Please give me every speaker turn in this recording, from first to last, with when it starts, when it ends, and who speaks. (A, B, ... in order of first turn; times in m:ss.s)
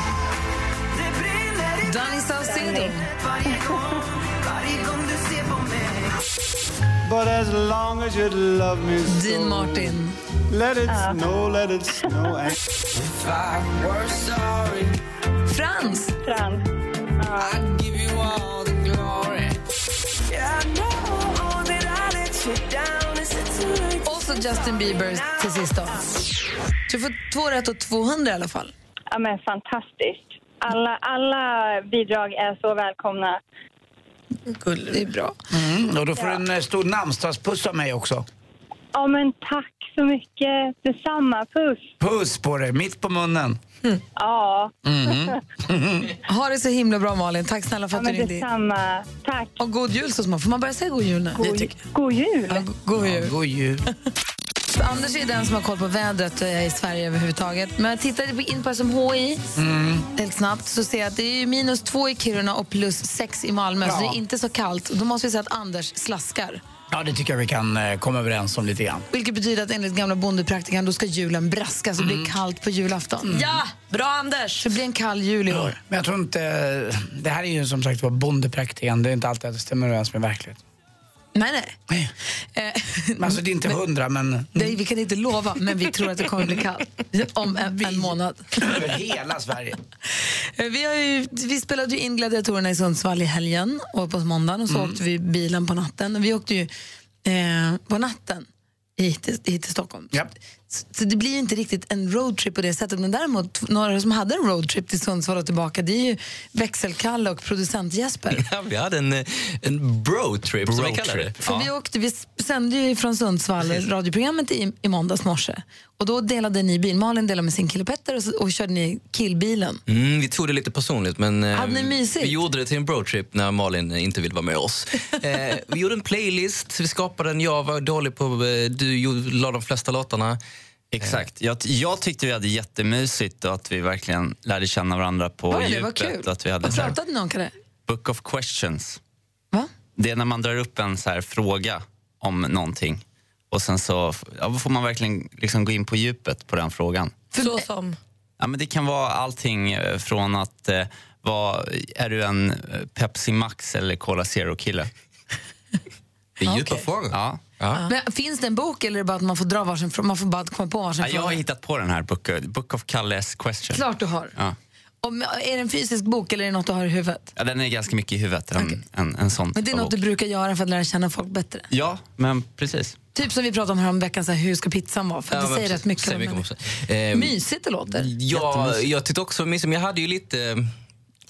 0:01.0-0:01.9 A
0:01.8-0:03.1 B
0:02.4-0:03.0 C
0:03.1-0:06.1 A
0:07.1-0:09.5 A
0:09.0-0:10.2 B
0:10.5-0:14.9 A
0:10.9-0:11.2 C
0:15.5-0:16.1 B
0:16.2-0:16.6 C
0:17.2-0:17.6 C
0:17.4-0:19.6 A
0:20.3-0:24.2 A
0:24.0-0:26.0 B
0:25.0-0:25.5 A
0:26.9-0:28.7 B
0:29.1-0:33.4 C
0:34.5-0:35.0 D
0:34.9-0:35.4 B
0:35.5-0:38.2 E
0:38.9-0:41.9 C
0:42.0-0:43.6 E
0:44.1-0:45.3 C
0:44.8-0:46.2 E
0:46.2-0:48.4 B
0:47.9-0:49.6 C
0:49.6-0:51.6 B
0:51.4-0:52.6 C
0:51.4-0:51.7 D
0:52.5-0:53.3 B
0:53.0-0:53.8 E
0:54.7-0:59.5 B
0:59.6-1:00.1 E
1:00.1-1:06.6 B
1:03.8-1:04.2 E
1:06.9-1:09.1 E
1:09.1-1:13.5 B
1:12.0-1:12.3 E
1:13.3-1:14.6 D
1:14.6-1:15.8 B
1:15.5-1:20.6 E
1:21.3-1:21.8 B
1:22.5-1:23.8 B
1:23.2-1:24.8 E
1:24.6-1:28.7 B
1:27.8-1:29.8 E
1:30.6-1:36.7 B
1:34.7-1:35.0 E
1:37.2-1:48.4 B
1:48.4-1:51.3 F
1:50.6-1:51.7 G
1:51.4-1:59.8 B
1:59.9-2:10.4 F
2:01.5-2:02.4 B
2:10.9-2:17.0 G
2:15.5-2:17.5 B
2:17.9-2:19.0 G
2:20.0-2:27.2 G
2:27.3-2:27.6 B
2:27.4-2:28.0 D
2:28.4-2:34.9 G
2:36.4-2:37.8 F
2:37.1-2:37.4 G
2:37.8-2:41.4 B
2:41.0-2:44.6 G
2:43.7-2:44.3 B
2:45.0-2:47.3 B
2:47.4-2:50.0 G
2:49.5-2:51.7 B
2:51.7-2:53.0 G
2:53.1-2:56.4 B
2:55.3-2:57.3 F
2:57.1-2:58.4 B
2:58.0-3:00.6 F